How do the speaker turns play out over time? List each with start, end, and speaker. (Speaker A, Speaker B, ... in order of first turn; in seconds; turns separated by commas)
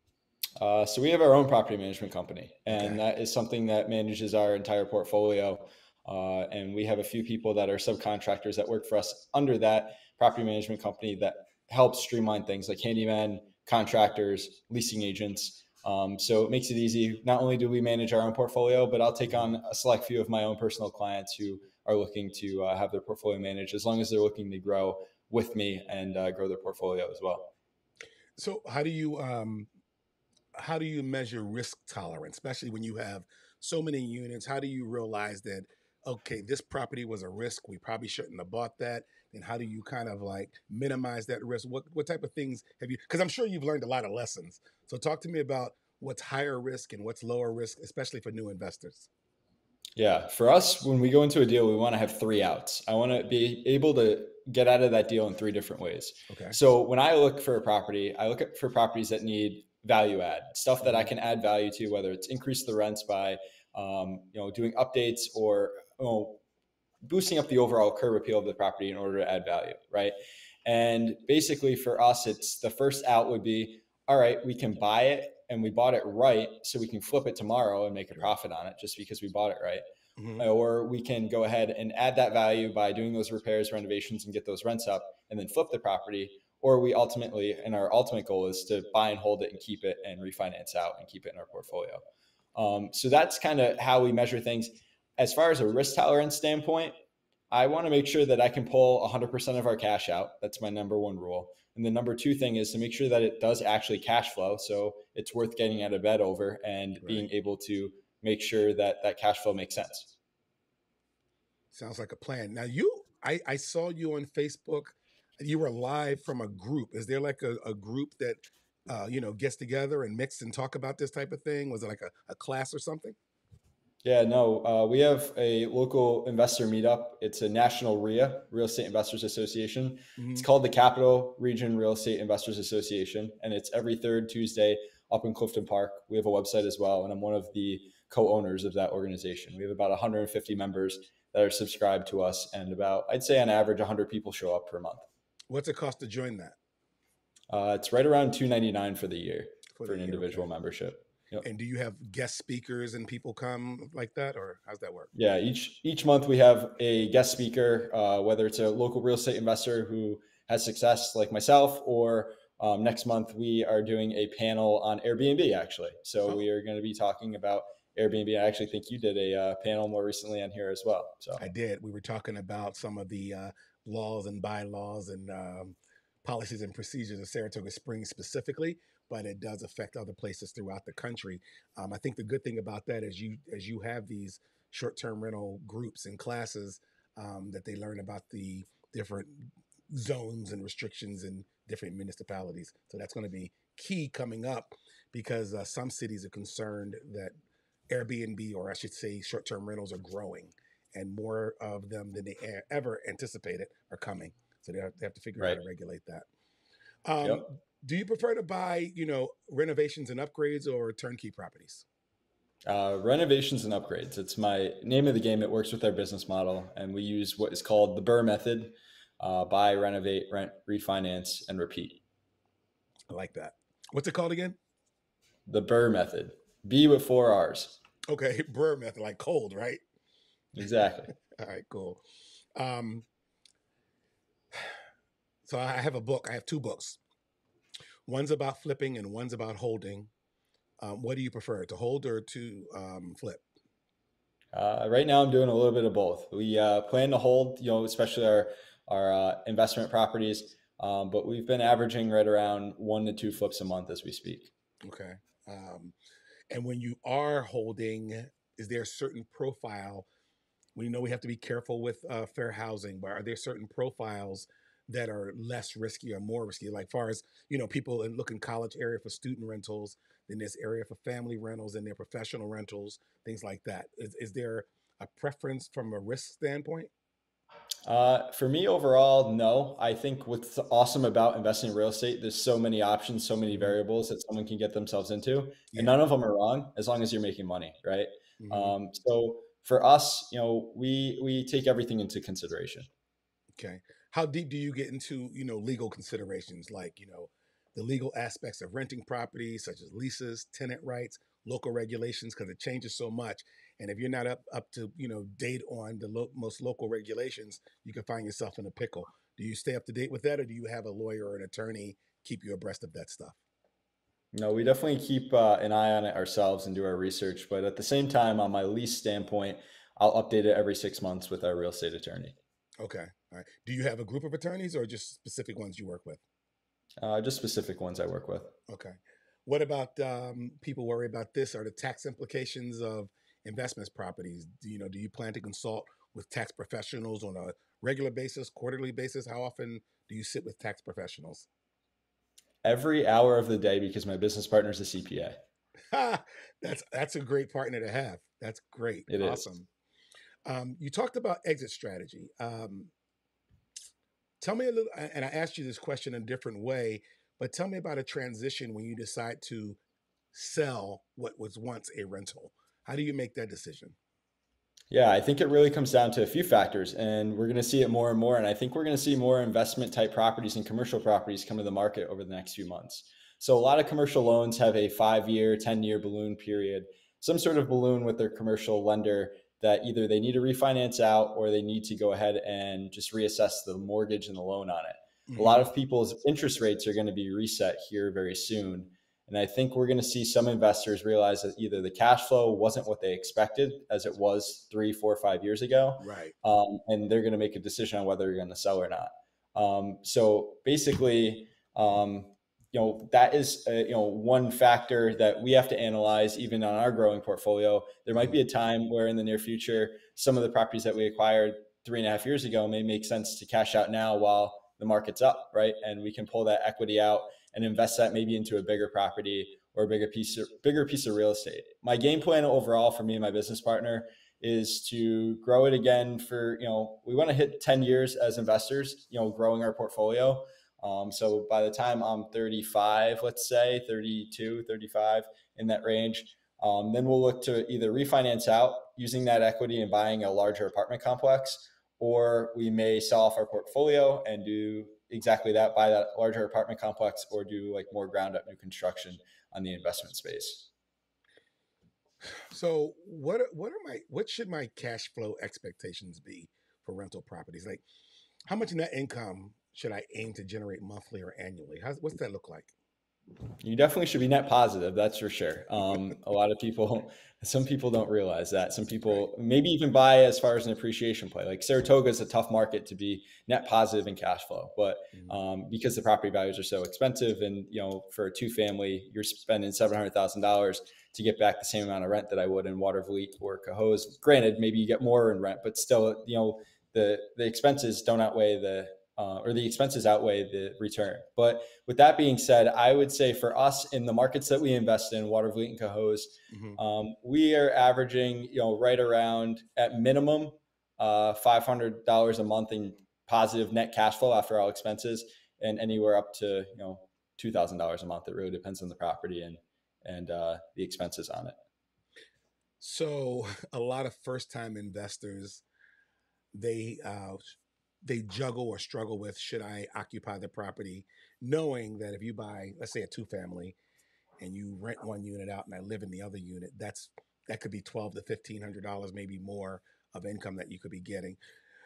Speaker A: 0.6-27.5, Speaker B: 2.7-3.0, Speaker B: 28.4-29.7, Speaker B: 30.6-49.1, Speaker A: 50.0-66.4, Speaker B: 56.3-56.6, Speaker B: 60.8-61.1, Speaker A: 67.0-79.8, Speaker B: 80.2-80.5, Speaker A: 80.4-92.0, Speaker A: 92.5-97.0, Speaker A: 97.5-110.2, Speaker B: 107.0-107.3, Speaker B: 111.7-123.2, Speaker A: 124.0-145.1, Speaker B: 130.2-130.5, Speaker B: 145.5-146.6, Speaker A: 147.5-151.4, Speaker B: 149.8-150.5, Speaker B: 151.4-155.1, Speaker A: 155.1-171.5, Speaker B: 171.4-197.3, Speaker B: 197.9-206.3, Speaker B: 207.1-211.9, Speaker A: 212.7-222.0, Speaker B: 223.1-224.6, Speaker A: 225.5-227.8, Speaker B: 228.1-229.8, Speaker A: 230.5-231.1, Speaker B: 231.2-232.0, Speaker B: 232.6-233.1, Speaker B: 235.4-237.0, Speaker B: 238.1-240.1, Speaker B: 240.8-243.4, Speaker A: 244.5-254.5, Speaker B: 254.8-256.0, Speaker B: 256.5-260.1, Speaker B: 260.8-276.9, Speaker A: 277.9-292.9, Speaker B: 288.4-288.8, Speaker B: 293.6-313.4, Speaker A: 314.3-322.4, Speaker B: 322.8-326.2, Speaker A: 327.0-328.5, Speaker B: 328.7-341.5, Speaker A: 342.6-345.4, Speaker B: 345.9-349.7, Speaker A: 349.1-349.5, Speaker B: 350.5-352.9, Speaker B: 354.4-359.8, Speaker B: 360.3-364.0, Speaker A: 364.9-450.7, Speaker B: 385.3-385.7, Speaker B: 396.0-396.3, Speaker B: 452.4-457.8, Speaker B: 458.5-462.7, Speaker A: 463.6-511.6, Speaker B: 496.5-496.8, Speaker B: 512.8-515.6, Speaker B: 516.5-523.8, Speaker B: 524.4-531.4